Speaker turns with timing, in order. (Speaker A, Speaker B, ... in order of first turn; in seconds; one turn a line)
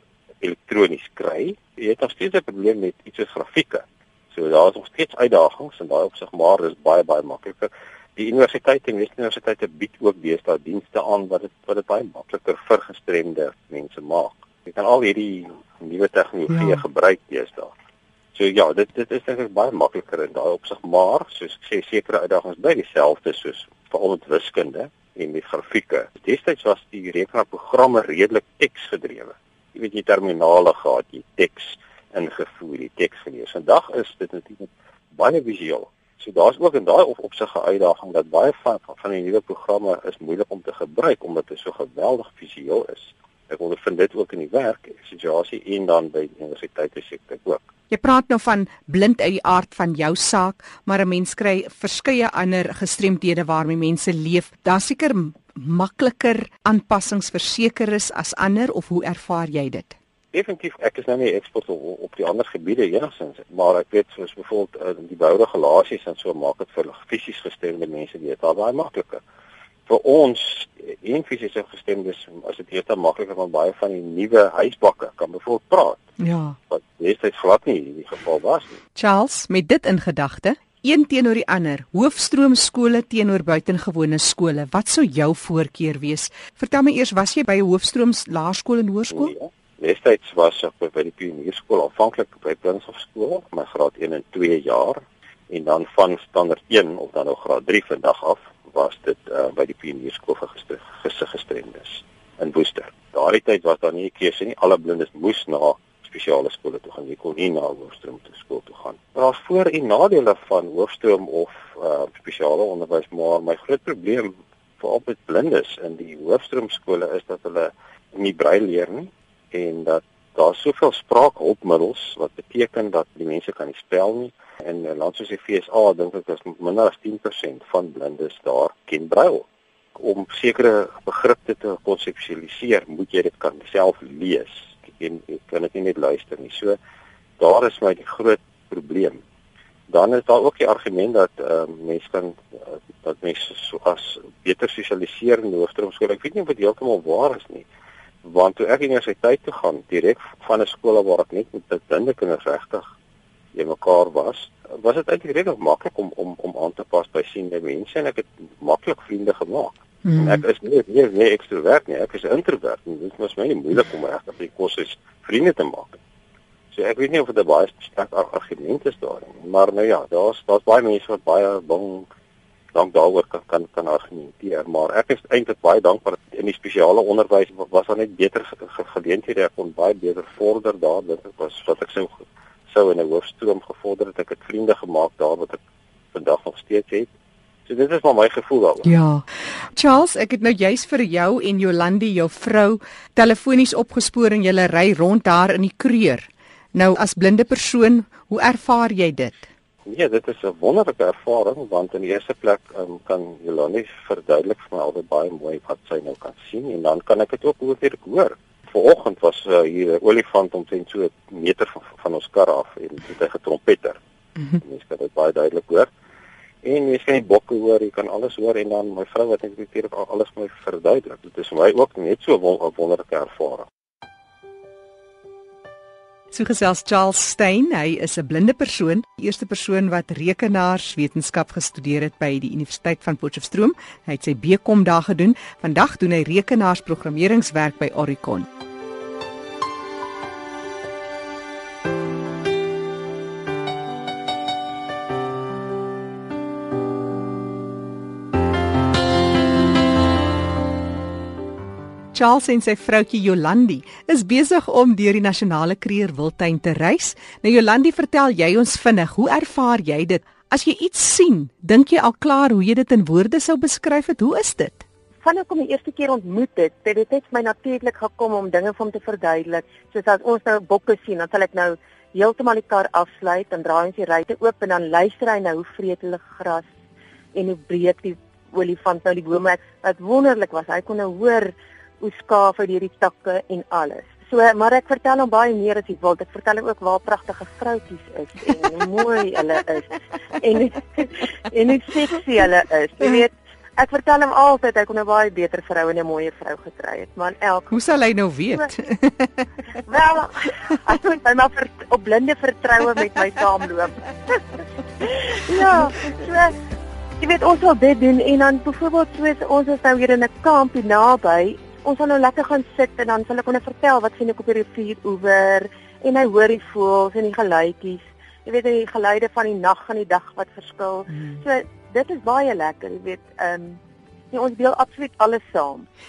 Speaker A: 0.4-17.7
Speaker A: 18.3-47.6
Speaker B: 47.9-60.0
Speaker A: 60.3-69.2
Speaker A: 69.9-76.0
Speaker B: 76.2-76.5
Speaker A: 76.7-78.8
Speaker B: 79.0-89.3
Speaker A: 89.1-136.8
Speaker A: 137.4-139.2
Speaker A: 139.9-147.7
Speaker A: 148.2-152.9
Speaker A: 153.5-166.0
Speaker B: 160.0-160.4
Speaker A: 166.7-172.1
Speaker A: 172.7-185.6
Speaker A: 186.1-187.1
Speaker A: 187.7-188.9
Speaker B: 188.8-199.5
Speaker A: 199.8-214.0
Speaker A: 214.5-215.9
Speaker A: 216.6-223.7
Speaker B: 226.3-238.5
Speaker B: 252.1-264.8
Speaker C: 265.2-276.7
Speaker C: 277.3-297.8
Speaker B: 297.7-299.5
Speaker C: 299.9-306.5
Speaker C: 307.2-323.8
Speaker C: 324.3-325.9